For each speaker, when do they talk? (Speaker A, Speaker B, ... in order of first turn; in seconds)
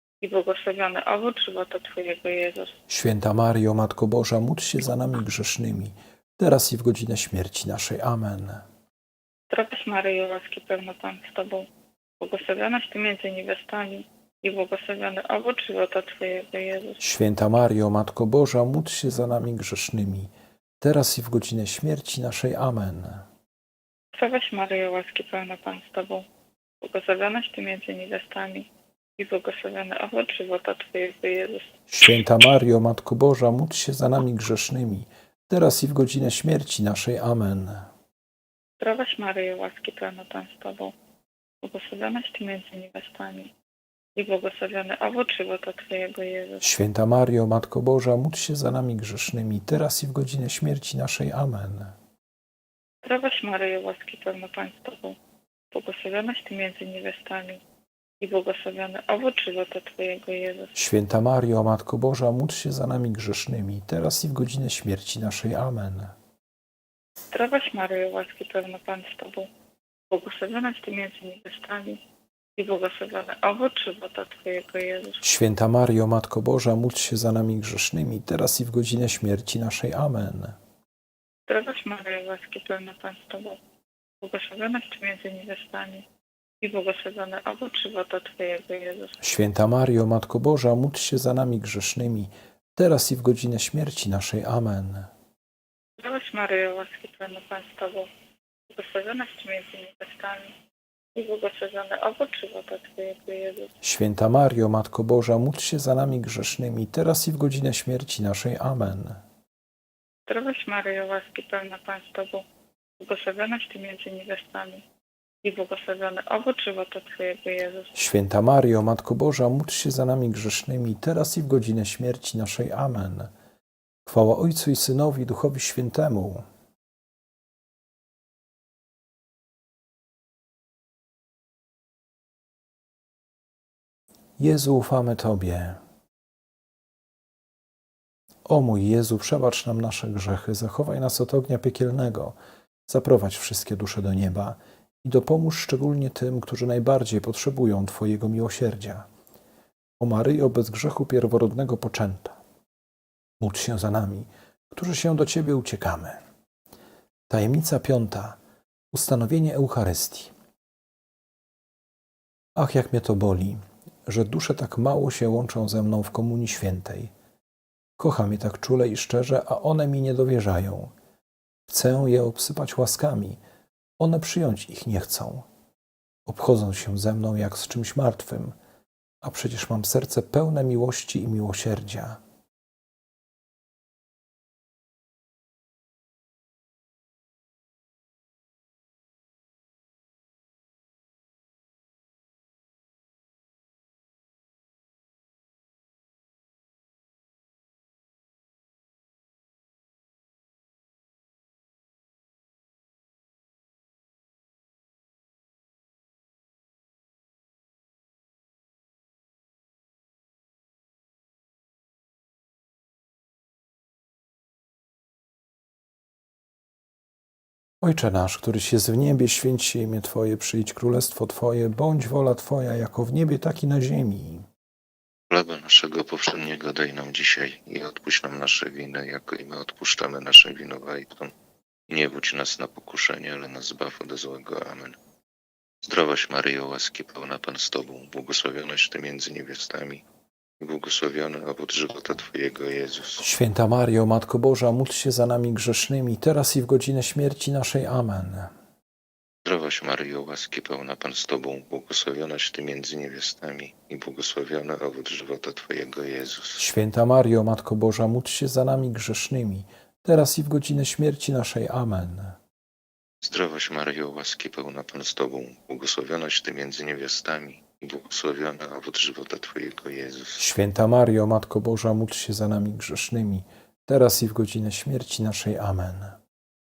Speaker A: 0.2-2.8, 9.5-11.7, 12.2-17.0, 24.1-26.2, 26.8-31.8, 38.8-40.9, 41.6-43.5, 44.2-46.6, 53.0-55.2, 55.7-57.6, 58.2-60.8, 67.3-69.5, 70.1-72.0, 72.6-75.2, 81.5-83.6, 84.2-86.0, 86.6-89.2, 96.0-98.1, 98.7-100.5, 101.2-103.7, 110.3-112.4, 113.0-114.8, 115.4-118.0
Speaker B: 2.9-8.6, 17.0-23.3, 31.9-37.9, 46.6-52.0, 60.8-66.2, 75.2-80.6, 89.2-95.1, 103.8-109.2, 118.0-123.3, 124.0-126.5, 134.4-135.8, 138.5-142.3, 142.9-149.1, 150.0-152.4, 153.4-156.2, 157.3-158.4, 158.9-160.3, 162.6-167.1, 168.0-170.9, 171.7-173.4, 174.0-175.5, 176.2-178.6, 179.2-182.2, 217.8-224.5, 243.2-248.5, 256.6-262.4, 270.4-276.2
Speaker C: 225.3-231.3, 231.9-235.0, 235.8-240.0, 240.6-243.2, 249.4-256.6, 263.2-270.4